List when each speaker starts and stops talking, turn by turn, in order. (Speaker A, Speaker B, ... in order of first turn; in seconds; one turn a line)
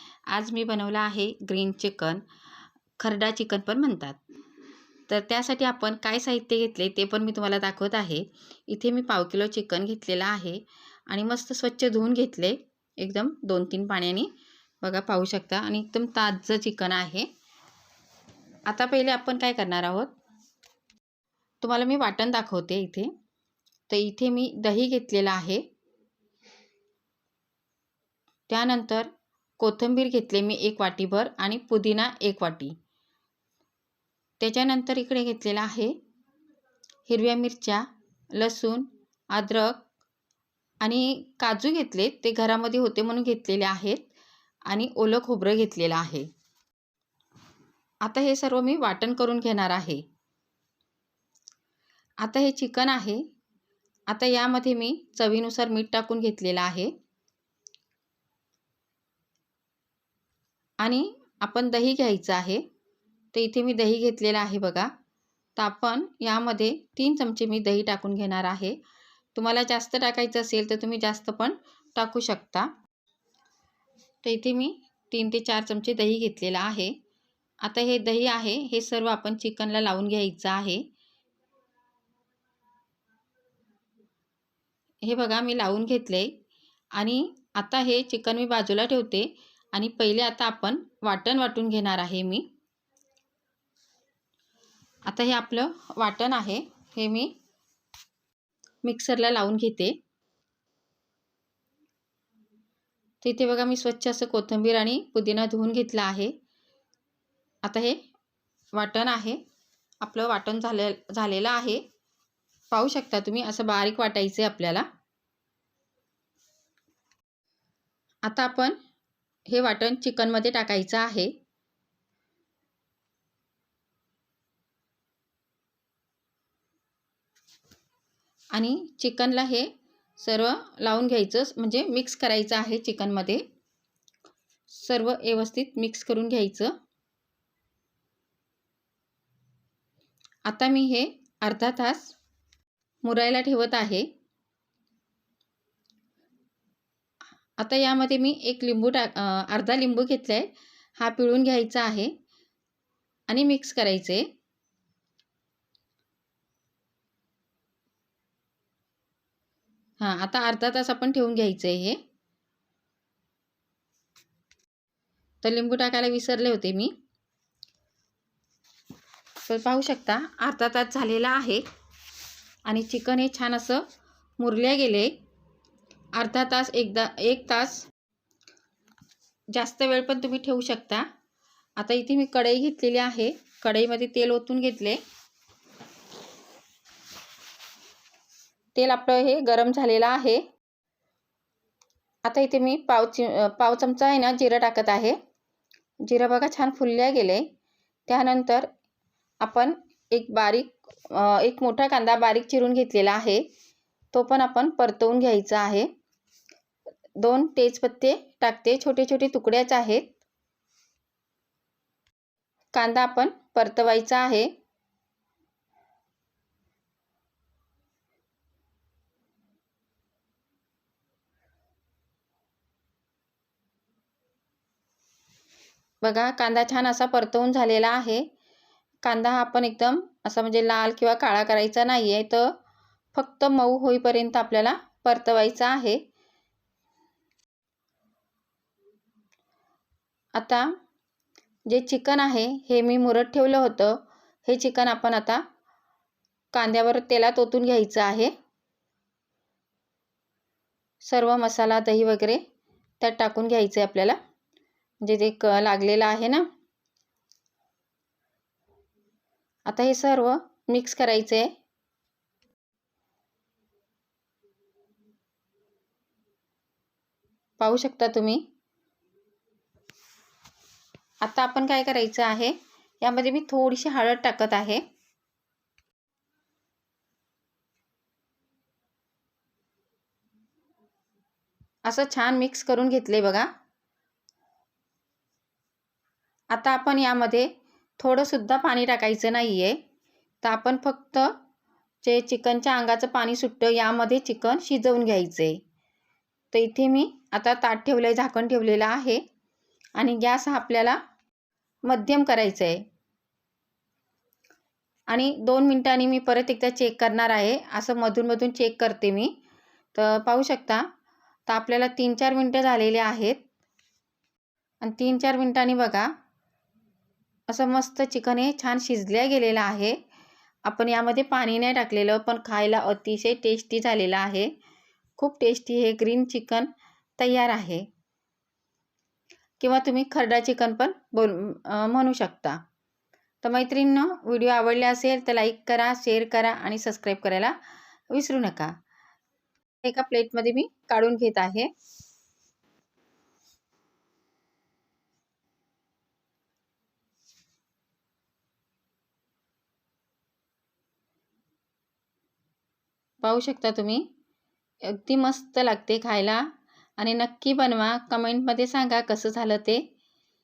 Speaker A: 0.3-2.2
Speaker A: 3.0-4.2
Speaker A: 5.1-14.3
Speaker A: 14.8-17.3
Speaker A: 18.7-20.1
Speaker A: 21.6-23.1
Speaker A: 23.9-25.6
Speaker A: 28.5-32.8
Speaker A: 34.4-36.0
Speaker A: 37.1-39.8
Speaker A: 40.8-44.1
Speaker A: 44.7-46.3
Speaker A: 48.0-50.0
Speaker A: 52.2-53.2
Speaker A: 54.1-56.9
Speaker A: 60.8-62.6
Speaker A: 63.3-64.9
Speaker A: 65.6-68.8
Speaker A: 69.3-72.7
Speaker A: 74.2-76.9
Speaker A: 77.6-80.8
Speaker A: 85.0-86.3
Speaker A: 86.9-92.5
Speaker A: 95.0-97.3
Speaker A: 98.8-100.0
Speaker A: 103.2-106.3
Speaker A: 107.6-108.0
Speaker A: 108.7-109.4
Speaker A: 110.0-111.8
Speaker A: 112.7-114.8
Speaker A: 118.2-118.8
Speaker A: 119.5-121.3
Speaker A: 128.5-133.4
Speaker A: 134.7-136.7
Speaker A: 140.4-142.2
Speaker A: 143.0-144.1
Speaker A: 147.6-152.1
Speaker A: 153.3-154.2
Speaker A: 160.0-162.0
Speaker A: 165.4-166.9
Speaker A: 169.4-171.6
Speaker A: 172.7-173.9
Speaker A: 174.4-175.1
Speaker A: 176.1-177.8
Speaker A: 179.5-181.1
Speaker A: 181.8-185.0
Speaker A: 188.7-190.4
Speaker A: 192.2-195.2
Speaker A: 196.0-197.5
Speaker A: 198.1-198.7
Speaker A: 199.4-203.4
Speaker A: 204.1-205.9
Speaker A: 207.2-210.1
Speaker A: 212.7-214.5
Speaker A: 226.0-228.3
Speaker A: 229.0-232.5
Speaker A: 233.1-236.0
Speaker A: 240.3-240.7
Speaker A: 241.7-245.4
Speaker A: 246.5-248.3
Speaker A: 251.0-252.4
Speaker A: 253.0-254.2
Speaker A: 255.0-256.4
Speaker A: 259.7-261.5
Speaker A: 267.6-268.4
Speaker A: 271.2-274.8
Speaker A: 281.8-283.5
Speaker A: 286.5-289.8
Speaker A: 290.4-291.3
Speaker A: 292.0-295.6
Speaker A: 296.5-299.2
Speaker A: 300.0-301.0
Speaker A: 301.8-302.8
Speaker A: 305.1-309.3
Speaker A: 309.9-310.9
Speaker A: 311.5-313.4
Speaker A: 314.8-316.1
Speaker A: 317.5-320.0
Speaker A: 320.6-324.5
Speaker A: 325.2-327.9
Speaker A: 329.6-332.6
Speaker A: 333.4-337.6
Speaker A: 338.1-338.7
Speaker A: 339.8-341.7
Speaker A: 353.2-354.1
Speaker A: 354.8-356.4
Speaker A: 357.0-359.9